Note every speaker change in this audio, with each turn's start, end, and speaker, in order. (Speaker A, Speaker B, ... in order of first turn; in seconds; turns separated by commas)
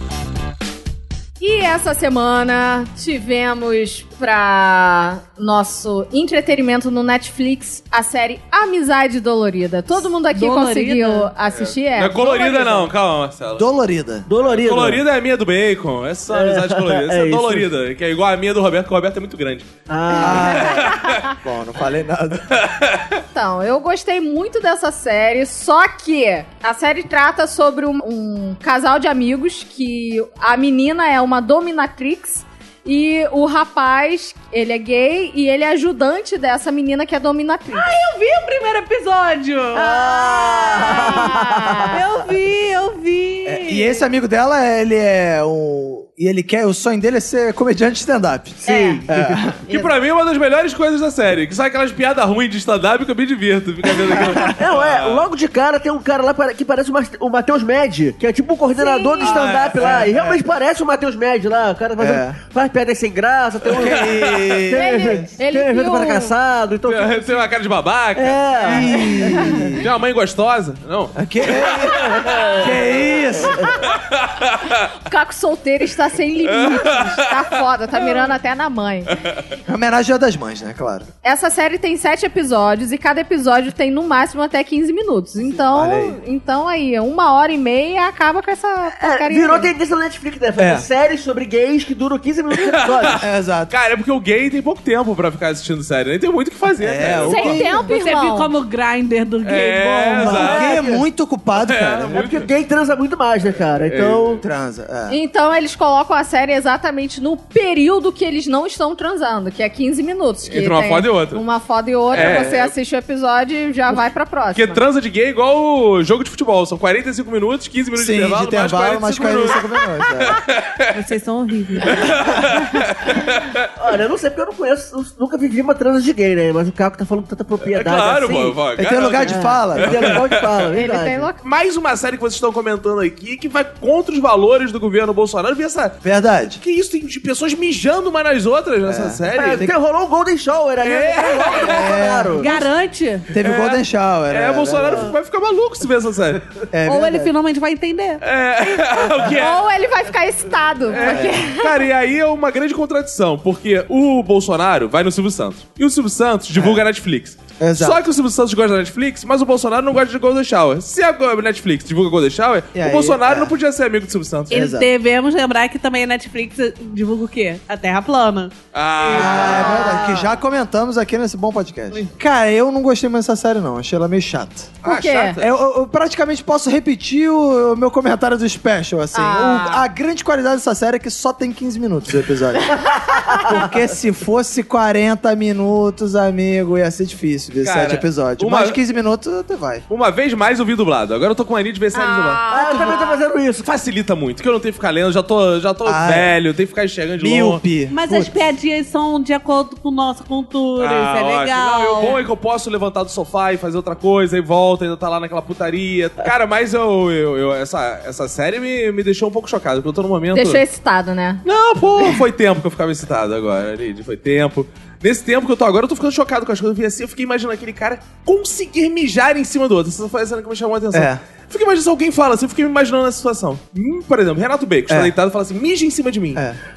Speaker A: 1.4-12.9, Speaker B: 10.3-11.3, Speaker C: 11.5-13.7, Speaker D: 13.6-14.3, Speaker E: 14.3-15.0, Speaker C: 14.4-19.7, Speaker E: 16.3-17.7, Speaker E: 19.9-20.7, Speaker A: 20.1-21.4, Speaker D: 20.2-22.6, Speaker C: 20.6-21.2, Speaker C: 22.5-23.2, Speaker A: 23.3-37.9, Speaker B: 37.7-44.0, Speaker E: 39.8-41.9, Speaker A: 40.9-42.0, Speaker D: 43.5-49.6, Speaker A: 48.7-49.1, Speaker E: 48.7-49.4, Speaker C: 49.7-55.2, Speaker D: 54.1-54.5, Speaker E: 54.5-67.4, Speaker A: 58.8-59.4, Speaker C: 59.2-60.4, Speaker D: 59.2-60.4, Speaker D: 62.0-62.4, Speaker D: 63.7-65.3, Speaker C: 63.7-64.6, Speaker A: 64.7-66.3, Speaker C: 66.9-68.4, Speaker E: 68.2-69.7, Speaker D: 68.6-69.9, Speaker A: 69.0-69.7, Speaker C: 69.7-72.7, Speaker D: 71.2-73.8, Speaker E: 71.8-73.6, Speaker A: 73.6-73.9, Speaker C: 73.8-74.8, Speaker A: 74.9-79.2, Speaker C: 76.5-77.4, Speaker D: 79.7-81.1, Speaker A: 81.2-89.7, Speaker D: 85.7-86.2, Speaker E: 89.0-93.2, Speaker D: 90.6-90.9, Speaker C: 92.5-97.6, Speaker D: 93.1-93.7, Speaker D: 96.8-97.8, Speaker A: 97.3-98.5, Speaker B: 97.6-100.5, Speaker C: 99.4-100.8, Speaker D: 100.2-102.4, Speaker E: 100.2-101.0, Speaker C: 101.6-102.5, Speaker E: 102.1-104.4, Speaker C: 103.8-104.4, Speaker D: 104.4-105.2, Speaker A: 105.1-114.8, Speaker C: 110.5-111.4, Speaker C: 112.1-112.7, Speaker D: 112.1-112.5, Speaker C: 114.5-119.7, Speaker D: 118.0-120.4, Speaker C: 120.2-120.9, Speaker B: 120.9-122.5, Speaker C: 121.8-123.7, Speaker E: 123.8-128.6, Speaker C: 127.6-130.7, Speaker D: 128.8-130.2, Speaker E: 129.3-131.3, Speaker A: 130.7-131.4, Speaker C: 131.4-136.0, Speaker D: 136.0-136.6, Speaker C: 136.6-139.7, Speaker D: 138.9-139.7, Speaker E: 139.3-142.5, Speaker C: 140.8-142.0, Speaker D: 141.5-142.5, Speaker B: 142.3-143.3, Speaker D: 143.3-145.1, Speaker C: 143.4-146.5, Speaker D: 146.7-147.3, Speaker B: 146.8-148.2, Speaker C: 148.2-149.6, Speaker A: 149.3-151.8, Speaker C: 150.9-164.7, Speaker D: 151.0-151.4, Speaker D: 156.5-156.8, Speaker D: 157.6-158.0, Speaker D: 162.7-163.5, Speaker D: 164.5-164.9, Speaker B: 164.5-170.0, Speaker C: 168.7-170.0, Speaker D: 169.1-174.8, Speaker A: 169.2-170.3, Speaker C: 174.8-175.5, Speaker A: 174.8-175.4, Speaker D: 175.4-182.9, Speaker A: 179.1-179.9, Speaker E: 183.1-183.7, Speaker A: 183.1-183.4, Speaker D: 183.4-189.8, Speaker C: 187.6-188.8, Speaker C: 189.9-192.4, Speaker A: 191.9-193.2, Speaker E: 192.5-193.7, Speaker C: 193.6-197.6, Speaker D: 195.8-196.3, Speaker D: 197.2-198.4, Speaker B: 197.9-202.2, Speaker C: 200.8-210.6, Speaker A: 210.3-211.4, Speaker C: 211.4-226.4, Speaker D: 220.9-221.2, Speaker D: 224.9-225.1